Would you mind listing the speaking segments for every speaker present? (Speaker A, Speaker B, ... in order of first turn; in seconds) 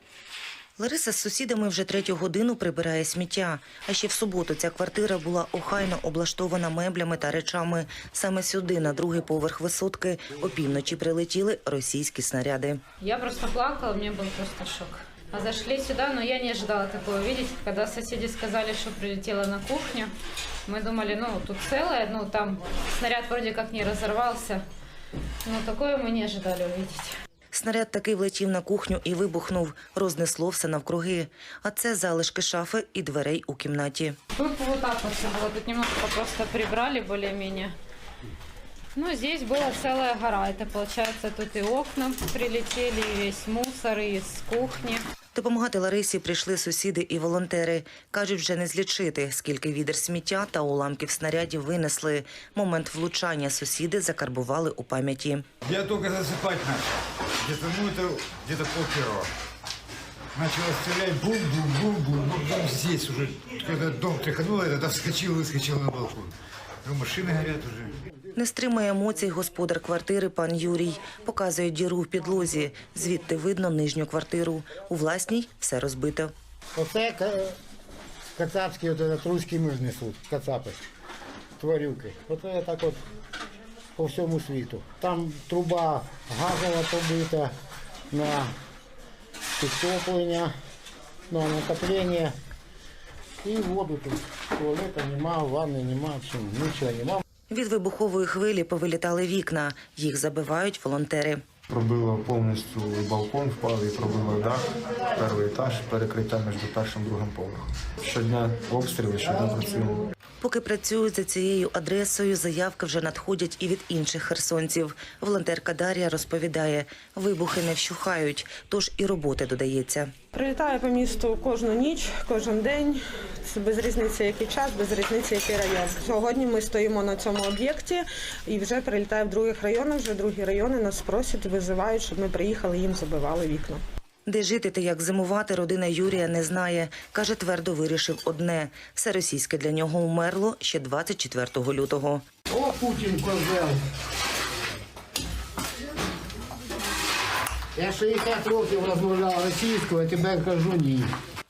Speaker A: 0.8-12.8, 27.5-34.2, 45.3-55.5, 68.3-76.3, 97.5-101.4, 110.4-120.1, 134.3-142.2
Speaker B: 13.0-20.1, 20.7-24.6, 25.4-27.1, 34.4-37.7, 38.9-45.0
Speaker C: 55.7-56.8, 57.5-59.2, 60.4-66.3, 66.8-67.9
Speaker D: 76.8-77.5, 78.4-80.8, 81.6-83.0, 84.0-87.5, 88.1-88.5, 89.6-90.5, 91.3-92.3, 93.4-97.2, 142.5-143.8, 147.8-151.1
Speaker E: 101.7-104.6, 105.2-110.0
Speaker F: 120.3-133.8